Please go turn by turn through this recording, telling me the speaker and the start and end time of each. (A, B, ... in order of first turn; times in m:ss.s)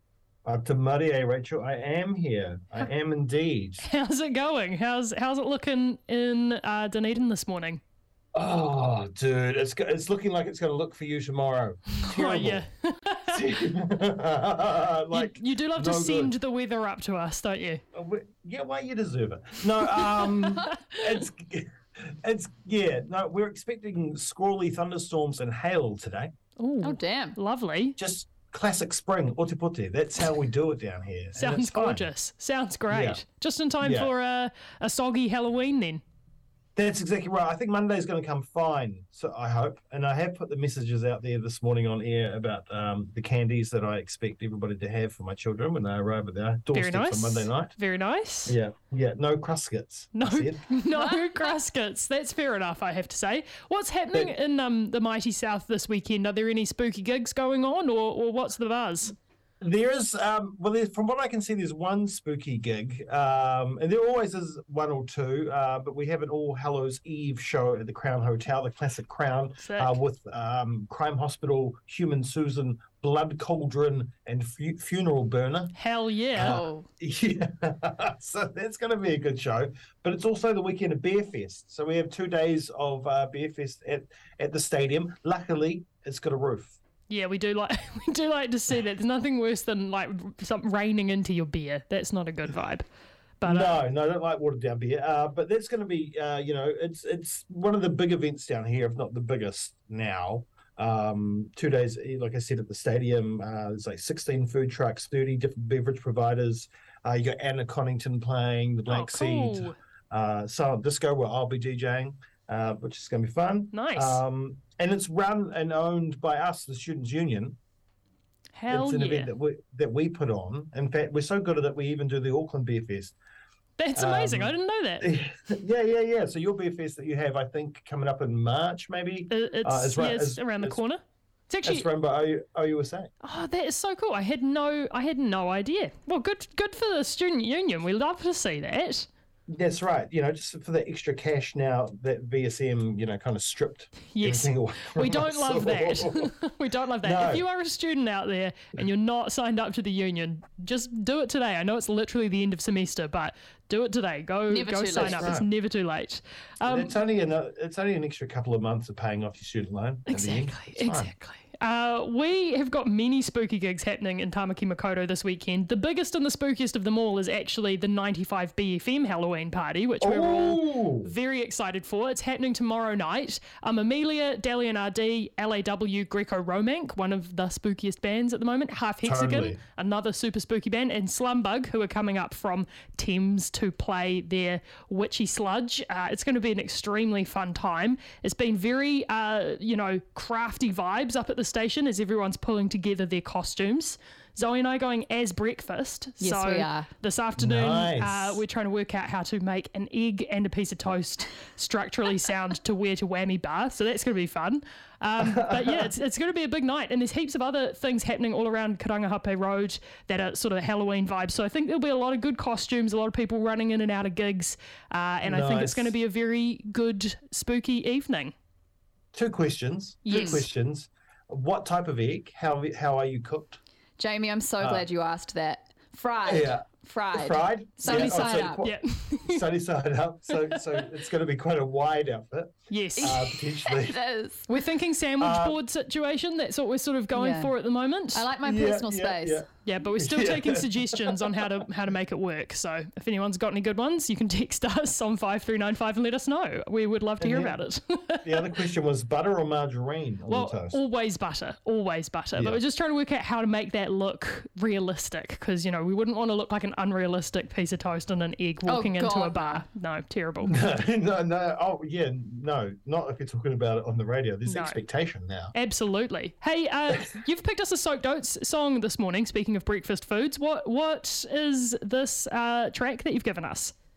0:00.4-0:03.9 A
0:03.8-0:07.8 B
0:08.3-0:12.7 A
0:12.0-0:13.4 B
0:13.3-0:16.3 A
0:15.1-0:17.8 B
0:17.9-0:26.3 A
0:26.6-0:28.0 B
0:26.8-0:27.4 C
0:28.0-0:32.1 A
0:31.4-0:36.0 B
0:32.9-0:33.2 A
0:33.8-0:34.1 A
0:36.8-0:47.7 A
0:46.7-0:48.6 B
0:48.5-0:50.6 A
0:50.1-0:59.1 B
0:59.6-1:15.7 A
1:09.6-1:09.9 B
1:15.7-1:16.7 B
1:16.3-1:26.8 A
1:16.4-1:16.8 C
1:27.1-1:32.8 B
1:33.4-1:33.8 B
1:33.4-1:57.6 A
1:48.9-1:49.8 B
1:53.7-1:54.2 B
1:58.5-1:59.3 B
1:58.7-2:03.2 A
2:03.8-2:05.1 B
2:04.0-2:10.8 A
2:09.3-2:11.9 B
2:11.6-2:13.1 A
2:13.2-2:19.1 B
2:19.5-2:26.3 A
2:24.1-2:36.9 B
2:27.0-2:27.4 A
2:34.5-2:35.3 C
2:34.9-2:35.5 A
2:36.6-2:41.1 A
2:40.1-3:38.3 B
2:50.0-2:51.1 A
2:59.0-2:59.6 A
3:16.2-3:16.9 C
3:17.4-3:18.4 A
3:25.2-3:25.9 A
3:35.2-3:35.9 A
3:39.1-3:43.6 A
3:40.0-3:40.5 B
3:40.1-3:40.4 C
3:44.0-3:48.6 C
3:44.6-3:44.8 A
3:46.2-3:54.0 A
3:47.8-3:49.5 B
3:50.3-3:50.8 B
3:52.7-3:53.2 B
3:53.0-3:54.5 C
3:54.5-3:58.3 B
3:55.2-3:55.6 A
3:57.1-3:57.5 C
3:58.1-3:59.4 C
3:58.4-4:01.0 A
3:59.6-4:08.4 B
4:07.2-4:07.6 A
4:08.2-4:10.8 A
4:10.3-4:20.6 B
4:12.3-4:12.6 A
4:18.6-4:19.6 C
4:20.4-4:25.5 A
4:24.4-4:24.8 B
4:25.5-4:33.7 B